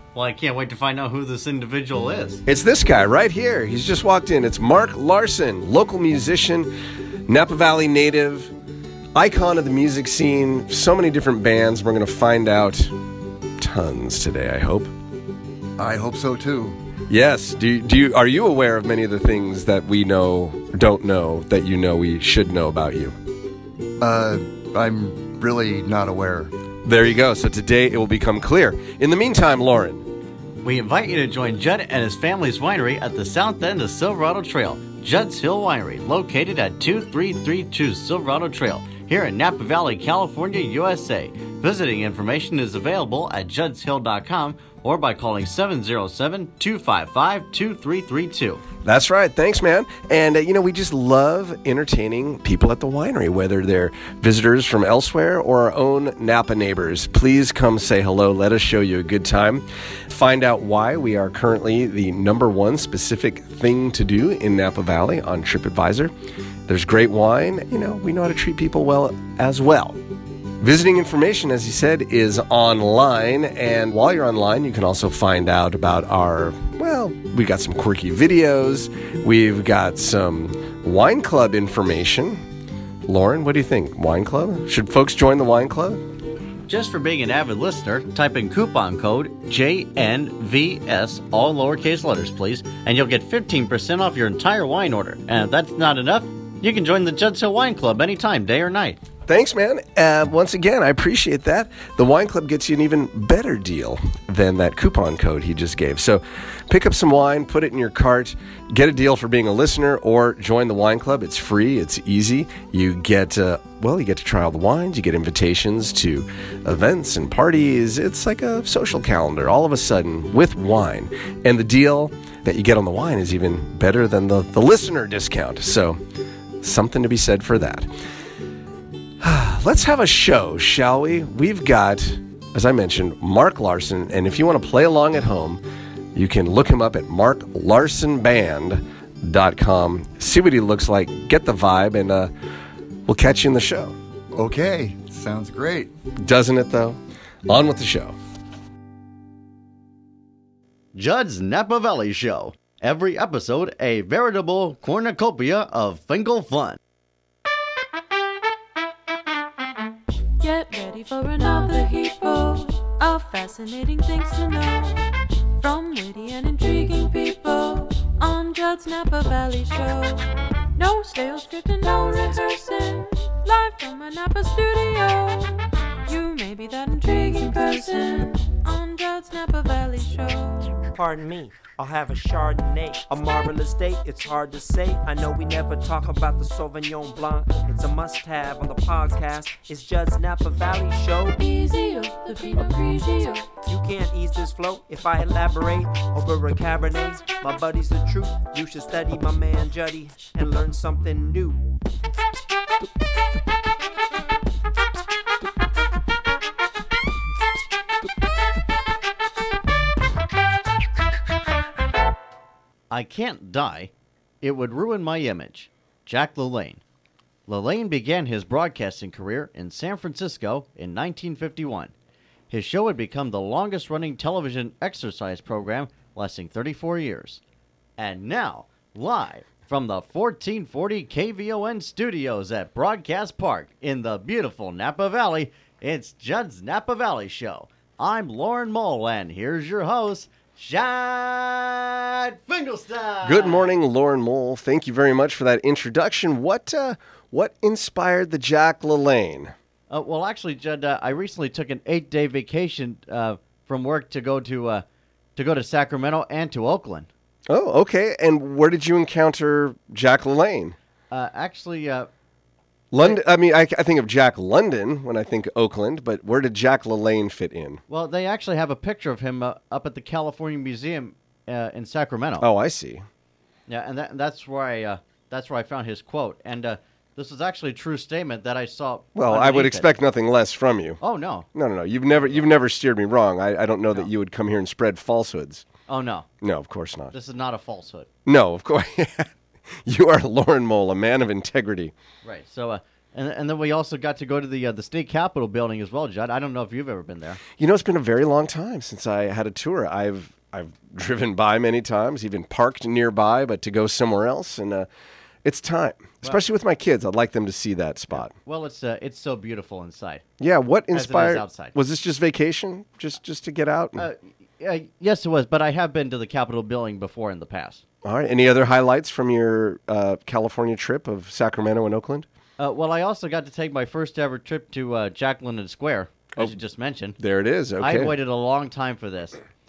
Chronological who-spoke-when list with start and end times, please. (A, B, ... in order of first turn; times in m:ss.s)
0:00.1-0:02.4 A
0:02.5-0:06.7 B
0:07.3-0:08.5 B
0:09.2-0:13.0 B
0:13.6-0:14.9 B
0:15.8-0:16.8 C
0:17.1-0:23.2 B
0:24.0-0:26.5 C
0:26.8-0:30.0 B
0:30.6-0:48.6 A
0:48.8-1:06.1 B
1:06.7-1:10.0 B
1:10.6-1:22.4 B
1:23.1-1:26.0 B
1:26.7-1:39.0 A
1:39.3-2:06.0 B
2:06.6-2:07.9 B
2:09.2-2:15.6 B
2:16.1-2:22.3 B
2:23.1-2:24.0 B
2:24.3-2:25.9 C
2:26.2-2:28.2 B
2:31.0-2:36.8 A
2:40.4-2:45.1 D
2:45.6-3:00.8 D
3:00.9-3:11.4 E
3:11.4-3:13.5 D
3:13.6-3:21.7 E
3:32.9-3:36.8 A
3:37.5-3:41.9 A
3:42.5-3:47.4 A
3:48.0-4:03.8 A
4:03.2-4:09.5 B
4:09.9-4:14.8 A
4:15.4-4:17.1 A
4:17.5-4:20.8 B
4:21.1-4:22.1 A
4:22.9-4:27.8 B
4:27.9-4:32.5 A
4:32.4-4:33.0 B
4:33.7-4:39.9 A
4:39.2-4:41.0 B
4:41.0-4:41.5 A
4:41.5-4:45.6 B
4:45.9-4:46.3 A
4:46.4-4:47.1 B
4:47.1-4:48.1 A
4:48.3-4:49.3 B
4:49.8-4:51.9 B
4:52.2-4:57.4 A
4:57.6-5:04.9 B
5:05.4-5:08.3 B
5:08.3-5:10.2 A
5:10.4-5:14.1 B
5:10.9-5:11.7 A
5:14.0-5:17.8 A
5:18.0-5:22.3 B
5:22.6-5:27.2 A
5:27.2-5:28.1 B
5:27.8-5:29.4 A